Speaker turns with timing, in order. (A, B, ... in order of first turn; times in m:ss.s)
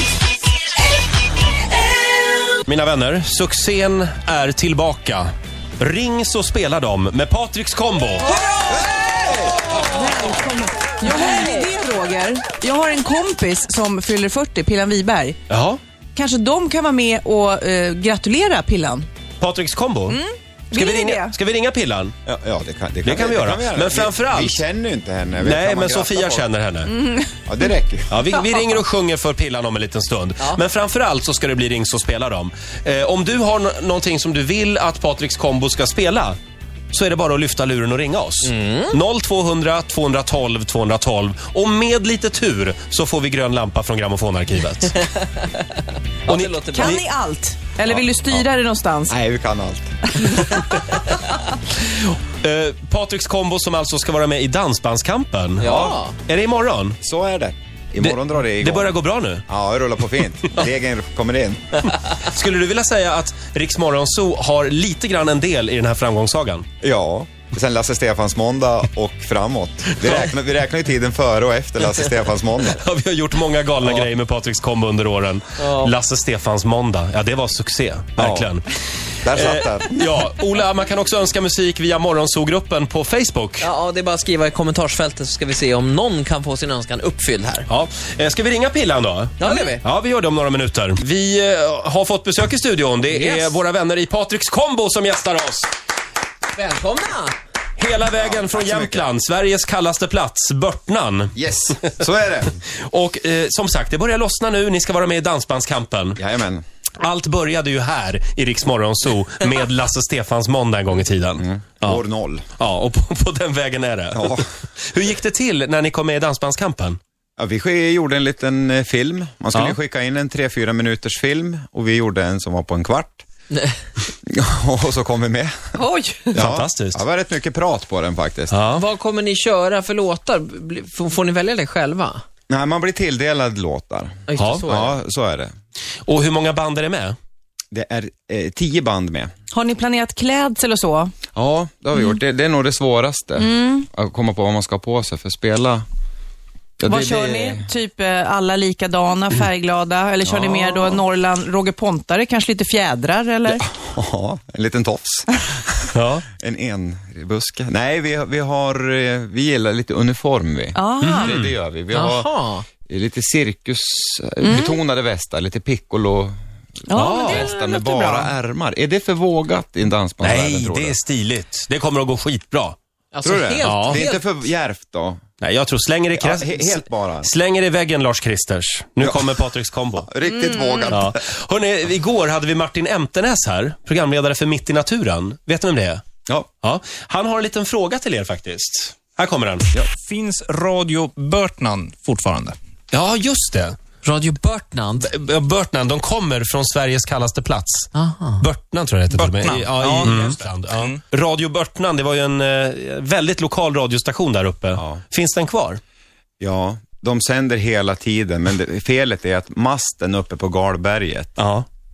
0:02.7-0:08.3 A
0:08.2-0:09.0 B
0:08.6-0:10.2 C
0:09.7-0:15.4 B
0:15.5-0:15.8 A
0:16.2-0:19.1 B
0:19.4-0:20.2 A
0:20.1-0:21.3 B
0:20.7-0:22.1 A
0:22.2-0:26.4 C
0:23.0-0:24.6 A
0:25.4-0:27.0 A
0:27.0-0:27.3 B
0:27.5-0:28.2 C
0:28.1-0:36.4 A
0:36.9-0:45.0 A
0:38.4-0:39.0 D
0:46.3-0:47.0 D
0:46.3-0:47.0 A
0:46.7-0:49.2 B
0:47.9-0:48.4 C
0:49.1-0:50.0 C
0:50.2-0:50.6 B
0:50.5-0:51.0 A
0:52.0-0:57.0 A
0:55.6-0:56.2 D
0:57.0-1:01.6 C
0:58.0-0:59.4 A
1:02.0-1:06.7 A
1:06.8-1:12.8 C
1:10.0-1:10.3 A
1:12.7-1:18.6 A
1:15.6-1:15.9 D
1:18.2-1:18.5 C
1:19.2-1:20.2 C
1:19.3-1:23.7 A
1:23.6-1:27.7 D
1:27.7-1:35.7 A
1:29.4-1:29.8 D
1:33.1-1:33.6 D
1:36.5-1:37.4 D
1:37.8-1:41.9 A
1:38.1-1:39.1 C
1:41.4-1:42.6 C
1:42.8-1:46.2 A
1:46.2-1:46.6 C
1:47.0-1:52.0 A
1:51.4-1:52.4 C
1:52.6-1:57.0 A
1:54.1-1:54.5 C
1:57.4-2:03.2 C
2:04.3-2:05.6 C
2:05.8-2:06.4 B
2:06.3-2:08.6 C
2:06.4-2:07.0 A
2:08.5-2:08.8 A
2:08.8-2:12.2 D
2:12.5-2:15.5 C
2:14.3-2:15.0 D
2:14.4-2:14.7 A
2:16.1-2:17.2 A
2:17.7-2:19.3 C
2:19.5-2:21.1 B
2:21.4-2:25.8 C
2:23.4-2:23.9 B
2:26.8-2:27.7 C
2:26.8-2:33.6 B
2:30.2-2:31.0 C
2:33.5-2:35.3 C
2:35.9-2:36.3 A
2:36.4-2:42.3 C
2:40.8-2:41.3 B
2:41.0-2:41.6 A
2:41.9-2:42.7 D
2:42.8-2:46.4 C
2:44.4-2:44.8 B
2:46.9-2:48.3 B
2:46.9-2:47.5 A
2:47.0-2:51.0 C
2:50.2-2:52.8 A
2:53.1-2:54.2 D
2:53.2-2:55.2 C
2:53.6-2:54.0 A
2:55.4-3:00.1 A
2:56.2-2:57.3 C
2:59.0-2:59.4 C
3:00.0-3:01.2 C
3:00.2-3:01.0 B
3:00.9-3:06.0 A
3:06.6-3:09.7 A
3:09.8-3:12.6 E
3:12.9-3:13.8 A
3:14.0-3:15.1 D
3:15.0-3:25.8 A
3:17.9-3:18.4 D
3:19.1-3:21.0 E
3:24.8-3:25.0 C
3:26.4-3:31.4 C
3:31.4-3:31.7 A